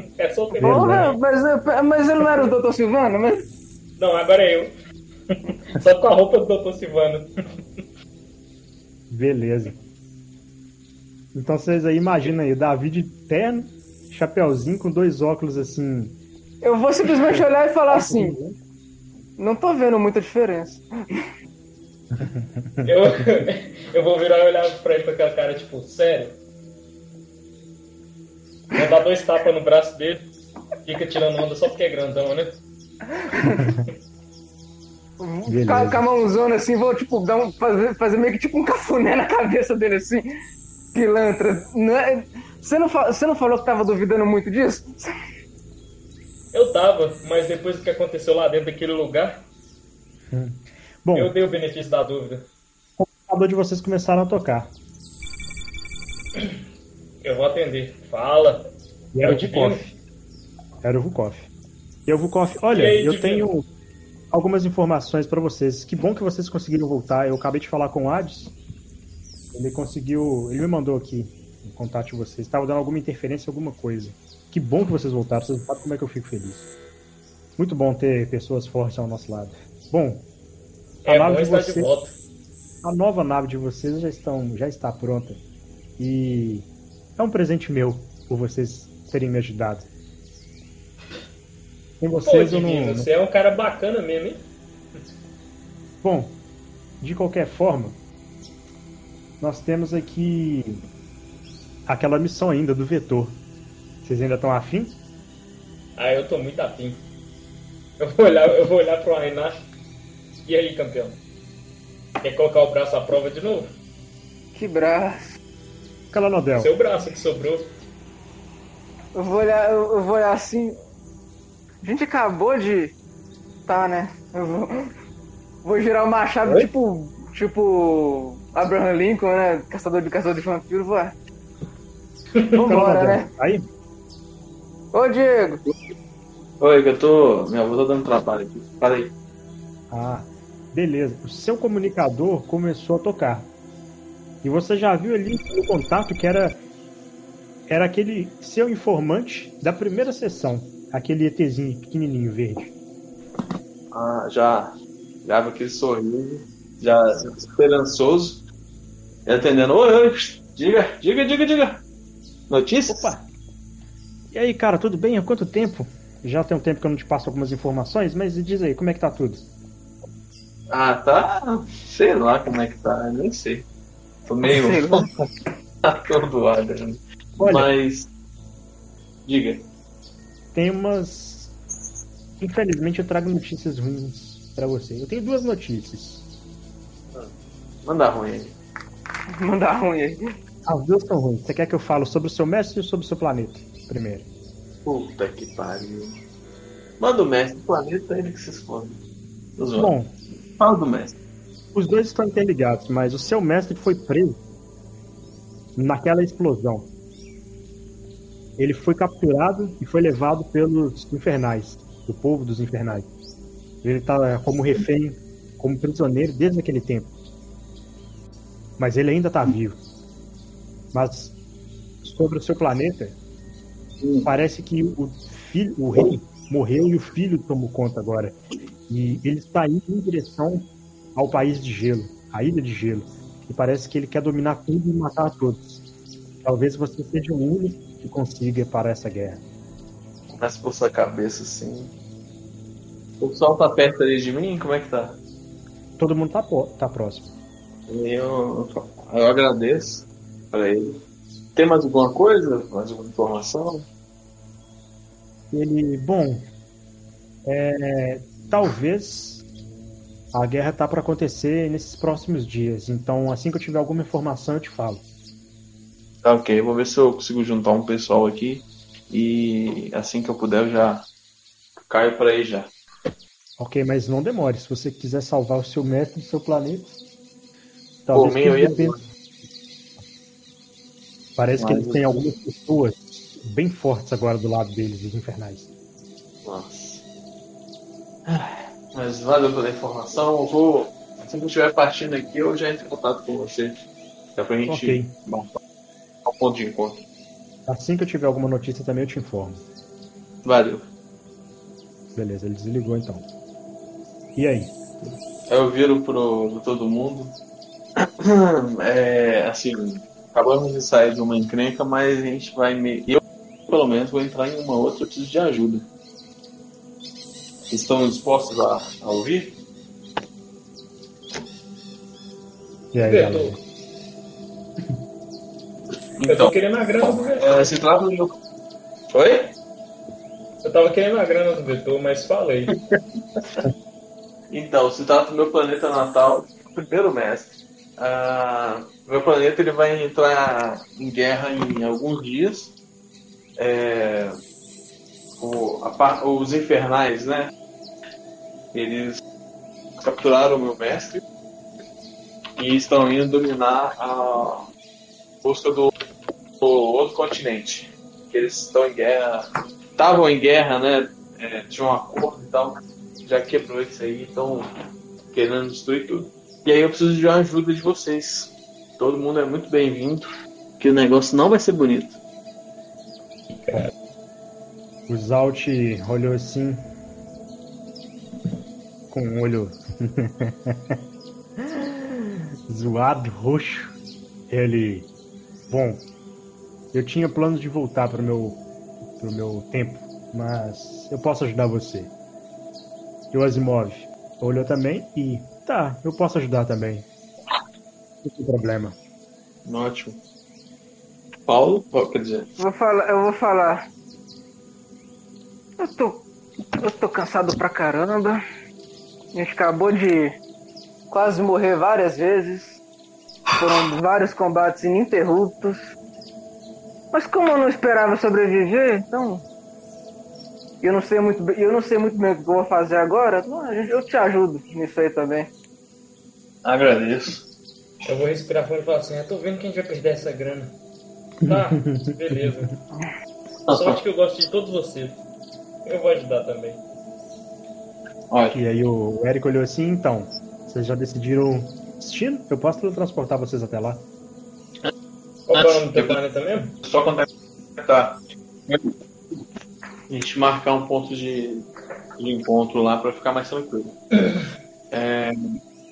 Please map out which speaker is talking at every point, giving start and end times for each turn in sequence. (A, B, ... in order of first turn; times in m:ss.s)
0:00.2-0:01.2 A
0:00.6-0:03.5 B
0:00.6-0:01.1 C
0:04.0-0:04.7 A
0:05.3-0:07.3 A
0:09.1-0:09.8 C
0:11.3-0:16.2 C
0:16.6-0:18.4 B
0:17.3-0:18.6 C
0:19.4-0:20.8 B
0:22.1-0:23.0 C
0:22.8-0:26.4 A
0:28.7-0:30.3 A
0:30.8-0:32.6 A
0:33.4-0:33.9 C
0:35.2-0:40.2 B
0:35.5-0:36.0 C
0:40.9-0:45.0 B
0:46.5-0:49.4 A
0:50.3-0:51.3 C
0:51.2-0:52.5 A
0:53.0-0:54.7 C
0:57.2-1:00.0 A
0:59.1-0:59.9 C
1:00.8-1:01.5 C
1:02.1-1:03.7 C
1:02.7-1:03.5 A
1:04.3-1:08.6 C
1:09.5-1:16.7 C
1:17.6-1:20.3 C
1:21.0-1:22.2 A
1:21.1-1:21.9 C
1:22.8-1:25.4 C
1:26.0-1:29.9 C
1:32.0-1:33.1 C
1:32.2-1:34.4 A
1:36.0-1:36.4 C
1:37.0-1:38.0 C
1:39.4-1:40.8 C
1:41.9-1:43.4 C
1:44.0-1:45.0 C
1:46.0-1:47.0 A
1:48.0-1:49.6 A
1:50.4-1:51.2 A
1:52.2-1:53.7 A
1:54.6-1:55.4 B
1:56.1-1:56.7 C
1:56.6-1:57.7 A
1:59.2-2:00.8 B
2:01.8-2:03.0 B
2:03.7-2:04.9 B
2:05.6-2:11.2 B
2:06.4-2:06.7 D
2:12.6-2:13.3 B
2:12.6-2:13.6 C
2:14.9-2:15.6 B
2:16.6-2:19.1 D
2:19.9-2:23.5 C
2:24.4-2:26.6 C
2:27.7-2:32.7 C
2:33.9-2:38.4 D
2:39.3-2:41.8 D
2:42.5-2:43.1 D
2:42.9-2:43.3 C
2:44.3-2:49.4 C
2:50.7-2:53.7 D
2:54.3-2:55.1 D
2:54.5-2:55.1 B
2:55.8-2:58.1 D
2:57.4-2:57.7 C
2:59.3-2:59.6 D
3:00.5-3:01.5 C
3:02.4-3:06.3 C
3:07.8-3:08.6 D
3:09.4-3:10.2 B
3:10.7-3:14.3 C
3:14.8-3:16.2 D
3:17.0-3:19.0 D
3:19.6-3:19.9 D
3:19.8-3:20.1 C
3:20.6-3:21.1 D
3:21.7-3:24.4 C
3:25.8-3:26.9 C
3:28.6-3:33.1 C
3:33.8-3:37.1 C
3:38.8-3:39.8 C
3:40.9-3:41.4 C
3:42.0-3:43.2 C
3:44.2-3:48.4 C
3:48.9-3:55.8 C
3:56.4-3:59.4 C
4:00.4-4:01.9 D
4:03.2-4:05.2 D
4:06.0-4:07.3 C
4:07.9-4:11.0 D
4:11.6-4:13.9 D
4:15.5-4:16.5 C
4:17.5-4:19.5 C
4:20.3-4:25.0 C
4:26.2-4:31.1 D
4:31.8-4:32.7 D
4:33.6-4:37.0 C
4:38.1-4:39.0 C
4:38.1-4:39.0 D
4:41.4-4:45.7 C
4:41.6-4:42.2 D
4:46.4-4:47.0 D
4:48.3-4:53.8 D
4:54.4-4:55.6 D
4:54.7-4:55.2 C
4:56.2-4:57.0 D
4:57.7-4:59.6 C
5:00.4-5:00.9 D
5:02.2-5:03.3 C
5:04.4-5:04.7 C
5:05.5-5:07.4 D
5:08.0-5:15.9 D
5:17.7-5:19.6 D
5:22.9-5:23.6 C
5:23.1-5:23.6 A
5:26.2-5:26.5 D
5:26.2-5:27.6 A
5:27.4-5:28.4 D
5:29.1-5:29.5 D
5:30.6-5:32.8 A
5:32.9-5:33.6 D
5:34.5-5:42.7 D
5:43.6-5:44.4 D
5:45.4-5:47.5 D
5:48.7-5:49.2 D
5:50.0-5:51.2 D
5:52.6-5:54.7 D
5:55.4-5:55.9 D
5:56.6-6:04.7 D
6:05.3-6:12.2 D
6:15.1-6:16.9 C
6:19.1-6:21.0 C
6:21.6-6:21.9 C
6:22.7-6:24.0 C
6:24.5-6:25.1 C
6:25.7-6:26.1 C
6:26.9-6:28.6 C
6:29.2-6:32.1 C
6:33.3-6:37.1 C
6:38.2-6:39.0 C
6:39.6-6:40.2 D
6:41.5-6:42.5 D
6:42.6-6:43.8 B
6:45.8-6:46.3 B
6:46.8-6:48.4 B
6:49.3-6:50.4 B
6:51.1-6:52.8 B
6:53.5-6:55.9 B
6:57.1-6:59.4 B
7:00.8-7:05.5 B
7:06.6-7:07.4 D
7:08.1-7:10.8 A
7:11.4-7:12.4 C
7:11.5-7:12.8 A
7:13.7-7:14.0 D
7:13.7-7:15.2 A
7:15.9-7:16.8 A
7:18.3-7:18.6 D
7:18.5-7:24.1 C
7:25.5-7:26.8 A
7:25.5-7:26.2 D
7:26.8-7:28.9 D
7:30.1-7:31.7 D
7:32.2-7:34.0 D
7:34.9-7:35.6 D